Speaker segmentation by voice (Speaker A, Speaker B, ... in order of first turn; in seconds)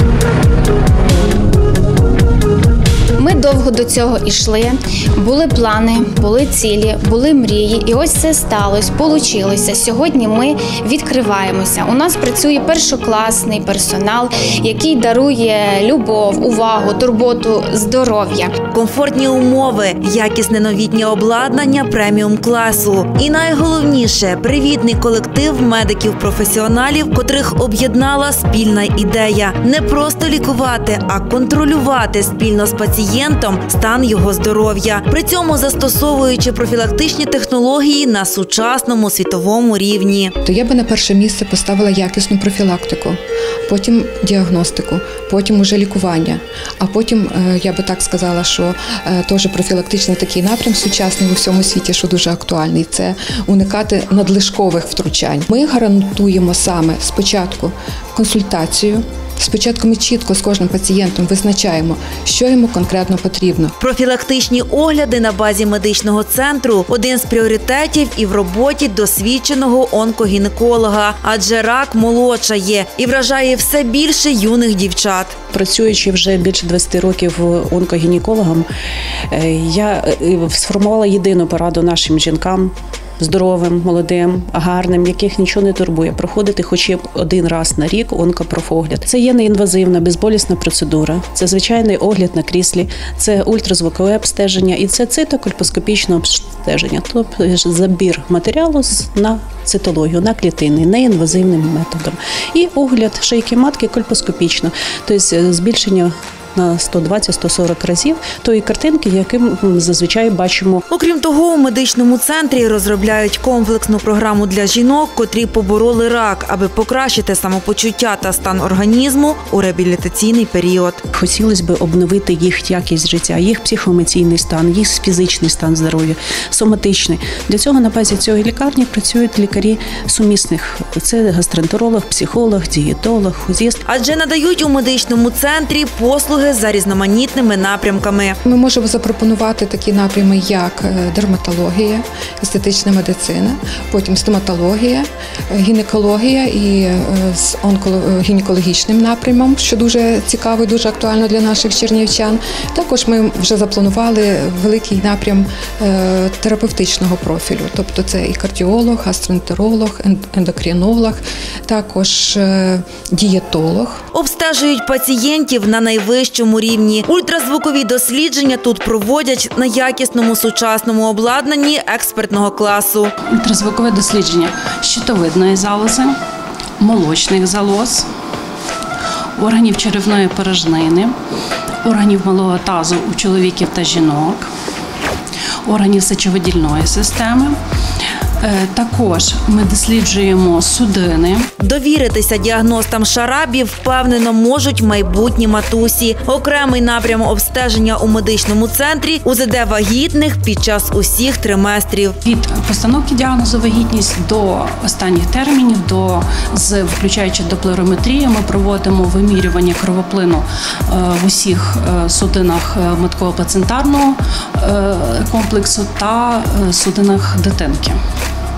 Speaker A: 3.2-18.5
Speaker B: 18.7-40.3, 63.8-75.4, 110.9-121.0, 133.9-138.4, 164.1-173.1, 191.6-202.2
Speaker C: 40.4-63.8, 138.4-164.0
Speaker D: 75.5-78.7, 79.3-110.8, 121.1-133.8
Speaker E: 173.3-176.2, 176.8-178.1, 179.4-181.1, 181.8-184.5, 185.7-187.6, 188.4-191.5, 202.2-218.0